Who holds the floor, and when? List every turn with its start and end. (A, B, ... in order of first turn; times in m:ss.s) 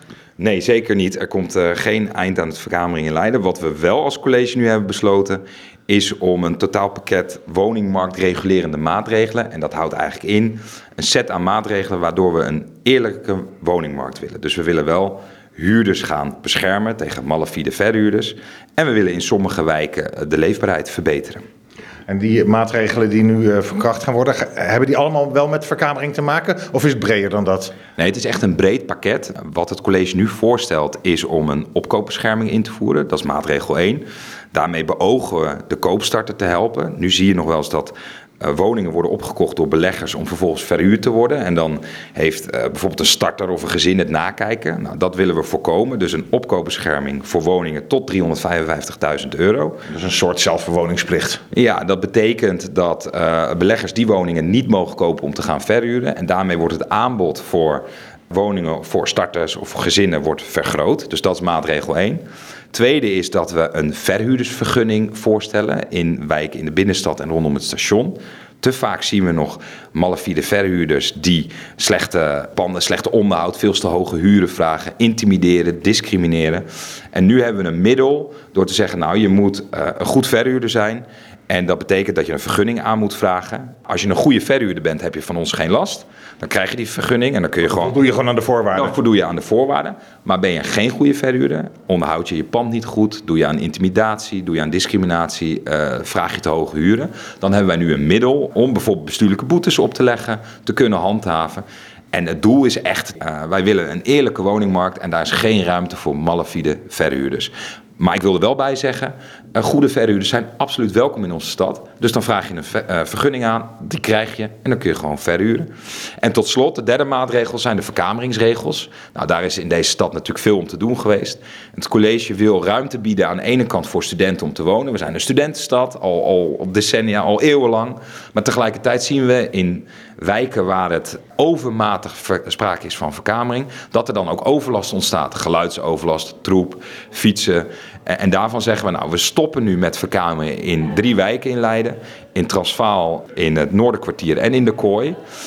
0:00.4-0:21.4 A
0:22.1-0:27.7 B
0:28.0-0:49.8 A
0:49.9-0:51.4 B
0:51.5-1:02.2 A
1:02.7-1:27.9 A
1:27.7-1:28.9 B
1:28.7-1:55.7 A
1:56.2-2:25.2 A